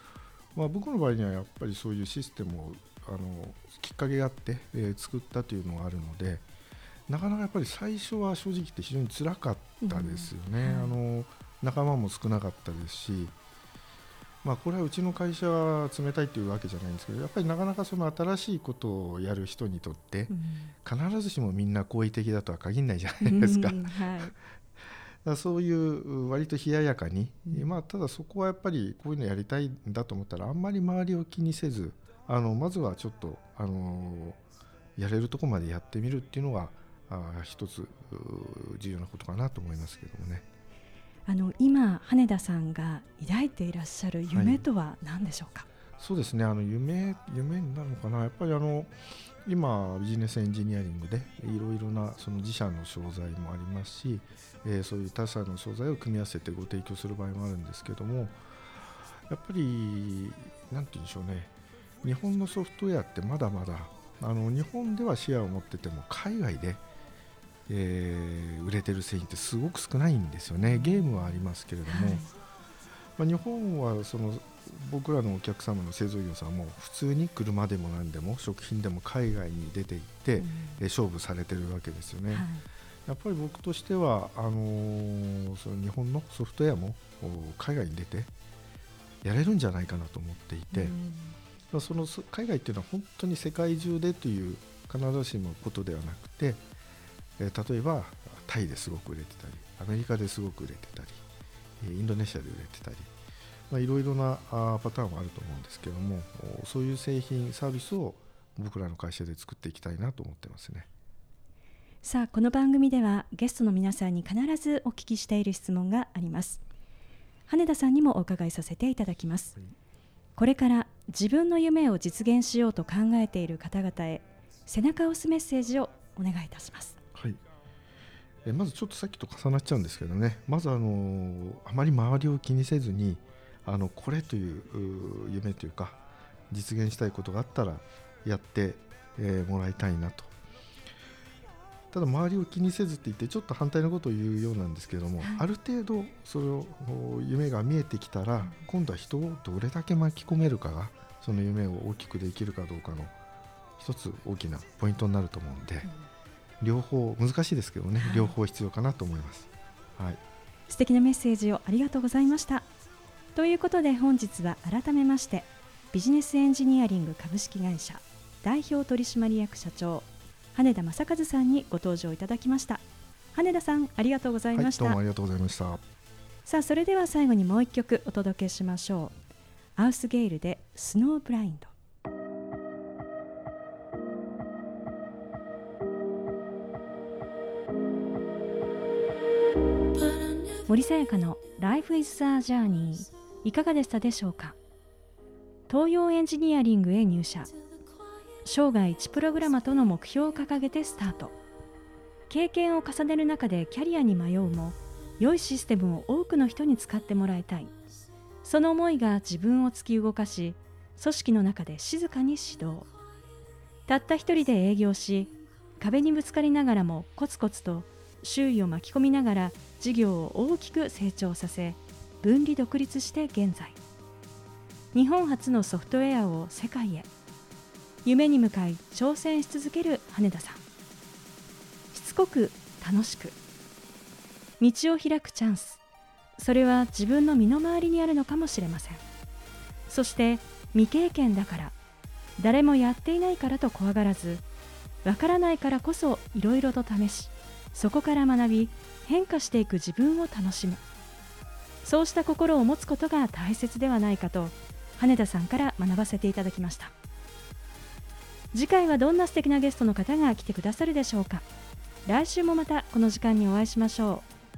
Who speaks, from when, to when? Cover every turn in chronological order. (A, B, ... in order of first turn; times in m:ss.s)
0:00.6-0:06.4 A
0:07.1-0:13.4 A
0:09.8-0:11.0 B
0:14.4-0:20.3 A
0:20.3-0:20.7 B
0:20.8-0:24.3 A
0:23.2-0:24.4 B
0:25.2-0:34.4 A
0:35.0-0:40.4 A
0:41.3-0:45.7 B
0:44.3-0:44.6 A
0:46.0-0:58.4 A
0:59.3-1:01.5 A
1:02.0-1:06.8 A
1:07.7-1:12.3 A
1:10.7-1:11.3 B
1:11.9-1:12.3 B
1:13.2-1:22.5 A
1:20.4-1:20.8 B
1:22.3-1:22.6 B
1:23.1-1:28.3 A
1:29.2-1:31.0 A
1:30.7-1:31.4 B
1:31.7-1:36.6 A
1:37.4-1:41.2 A
1:41.8-1:43.1 A
1:43.7-1:50.9 A
1:52.0-1:56.6 B
1:57.5-1:59.6 B
2:00.4-2:07.0 B
2:08.4-2:20.3 A
2:21.9-2:33.1 A
2:25.2-2:25.4 B
2:33.8-2:35.9 A
2:36.6-2:40.2 A
2:38.0-2:38.3 B
2:40.7-2:42.7 B
2:43.4-2:55.0 B
2:54.5-2:55.8 A
2:56.5-2:59.1 B
2:59.8-3:01.7 B
3:10.3-3:14.6 B
3:15.7-3:17.5 B
3:18.4-3:21.4 B
3:22.3-3:27.7 B
3:28.4-3:32.9 B
3:33.9-3:43.8 B
3:44.9-3:47.1 B
3:48.0-3:50.6 B
3:51.9-3:53.4 B
3:54.6-3:55.8 B
3:56.4-3:59.0 B
3:59.9-4:01.8 B
4:02.4-4:04.4 B
4:05.0-4:10.8 B
4:11.8-4:16.9 B
4:18.5-4:21.5 B
4:22.1-4:24.3 B